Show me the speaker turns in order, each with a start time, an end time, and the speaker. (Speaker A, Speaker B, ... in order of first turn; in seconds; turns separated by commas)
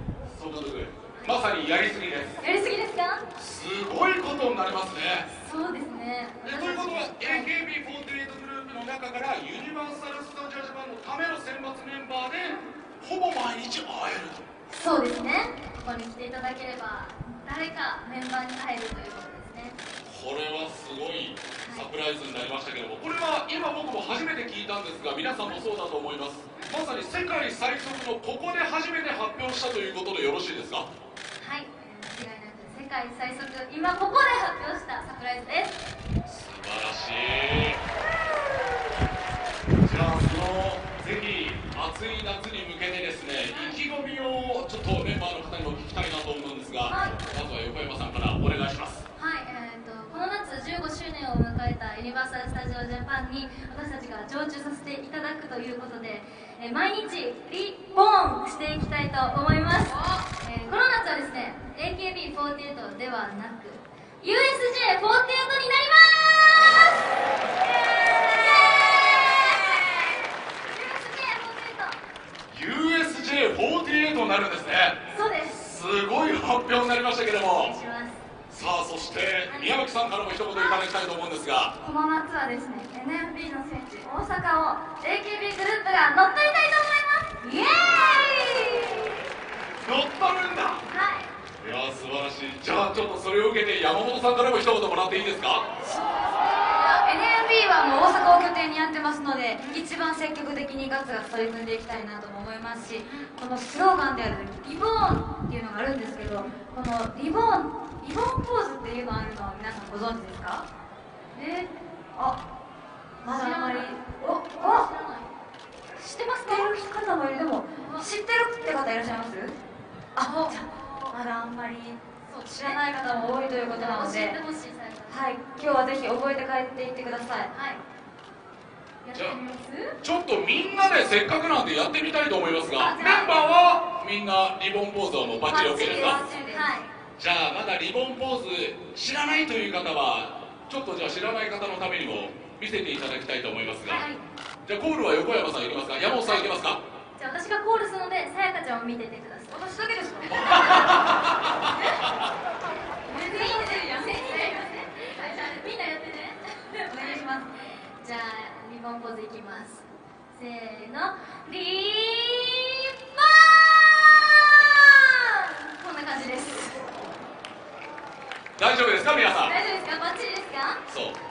Speaker A: 0.2-2.4, Speaker B: 2.4-3.2, Speaker A: 3.4-5.3, Speaker B: 5.3-7.5, Speaker A: 6.4-14.4, Speaker B: 14.7-19.8, Speaker A: 20.1-30.9, Speaker B: 21.6-21.9, Speaker B: 31.4-35.8, Speaker A: 36.3-37.8, Speaker A: 39.8-49.0, Speaker B: 43.5-43.8, Speaker B: 46.9-47.3, Speaker B: 49.2-67.0, Speaker B: 68.0-72.0, Speaker A: 72.5-77.7, Speaker B: 75.1-75.6, Speaker B: 77.5-78.2, Speaker A: 78.5-81.7, Speaker B: 79.5-79.8, Speaker B: 81.8-89.1, Speaker C: 83.0-84.1, Speaker A: 89.8-90.8, Speaker B: 90.9-91.3, Speaker A: 91.6-95.6, Speaker C: 95.9-110.6, Speaker B: 96.1-97.1, Speaker B: 99.6-99.8, Speaker B: 104.6-105.2, Speaker B: 111.3-111.7, Speaker C: 113.2-114.9, Speaker B: 113.2-115.3, Speaker C: 116.0-119.6, Speaker B: 116.3-116.7, Speaker B: 117.8-118.1, Speaker C: 120.2-124.4, Speaker B: 120.2-121.1, Speaker B: 122.2-125.3, Speaker C: 125.1-127.5, Speaker B: 127.5-127.8, Speaker B: 129.0-130.0, Speaker A: 129.1-129.4, Speaker A: 130.0-136.2, Speaker B: 132.8-133.5, Speaker C: 135.4-136.8, Speaker B: 135.9-136.9, Speaker A: 137.2-144.1, Speaker B: 143.8-144.2, Speaker A: 144.7-146.8, Speaker B: 147.2-149.6, Speaker C: 149.5-151.1, Speaker A: 150.3-151.9, Speaker B: 150.4-150.9, Speaker B: 151.6-152.0, Speaker B: 153.1-166.9, Speaker C: 156.9-157.5, Speaker A: 168.6-169.5, Speaker B: 169.4-170.8, Speaker A: 170.9-171.2